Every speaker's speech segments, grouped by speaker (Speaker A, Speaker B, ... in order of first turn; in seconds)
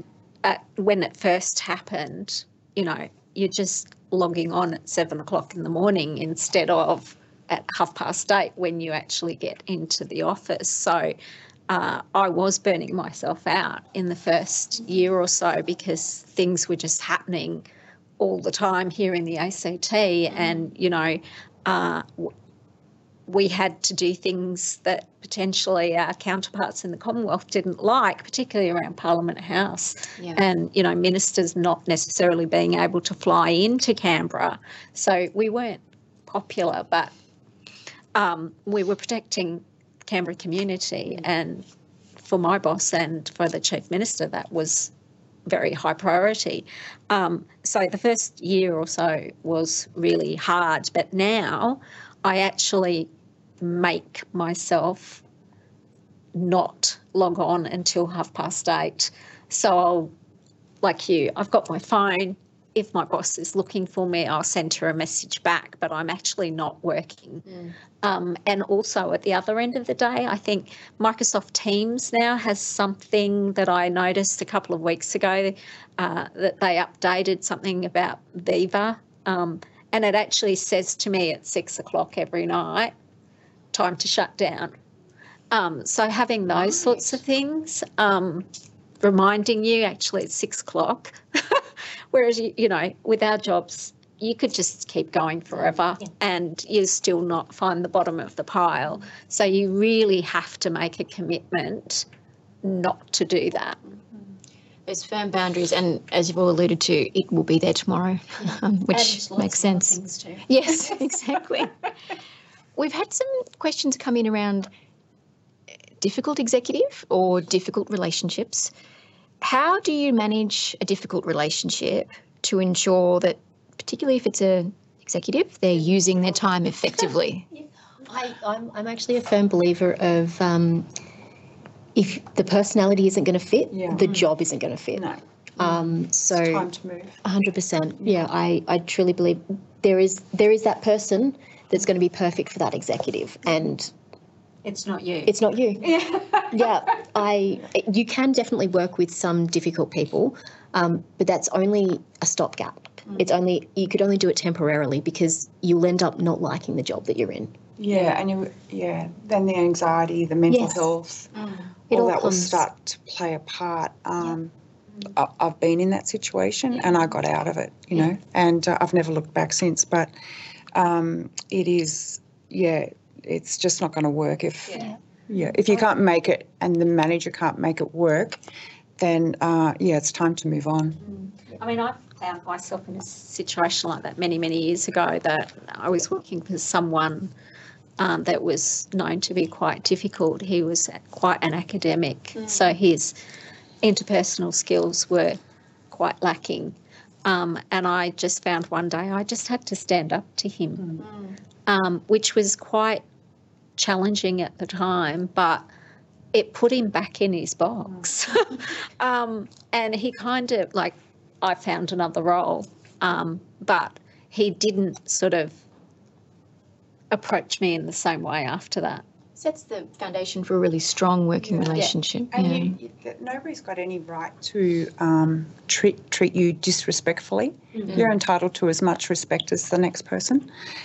Speaker A: 0.4-11.2, 11.7-17.6, 18.2-22.3, 23.3-37.1, 38.1-41.6, 42.2-44.9, 45.5-53.1, 53.6-55.2, 56.3-60.1, 60.8-67.5, 68.0-82.9, 83.7-84.7, 85.5-88.5, 89.0-102.0, 102.6-103.8, 108.9-110.5, 144.6-146.7, 174.7-174.9, 181.0-187.3, 188.0-193.1, 193.8-195.4, 195.9-201.0, 201.7-203.0, 203.8-205.7, 206.3-215.6, 217.1-219.0
Speaker B: 104.8-111.7, 112.8-114.7, 116.0-118.7, 119.4-127.5, 219.3-222.8
Speaker C: 128.1-130.9, 131.9-135.1, 135.6-136.7, 137.2-143.9, 145.2-145.9, 146.5-157.6, 160.5-160.9, 161.9-162.6
Speaker D: 133.7-134.2, 134.9-137.2, 157.8-161.3, 161.9-164.5, 165.1-170.1, 170.7-178.4, 179.0-181.0, 221.5-230.5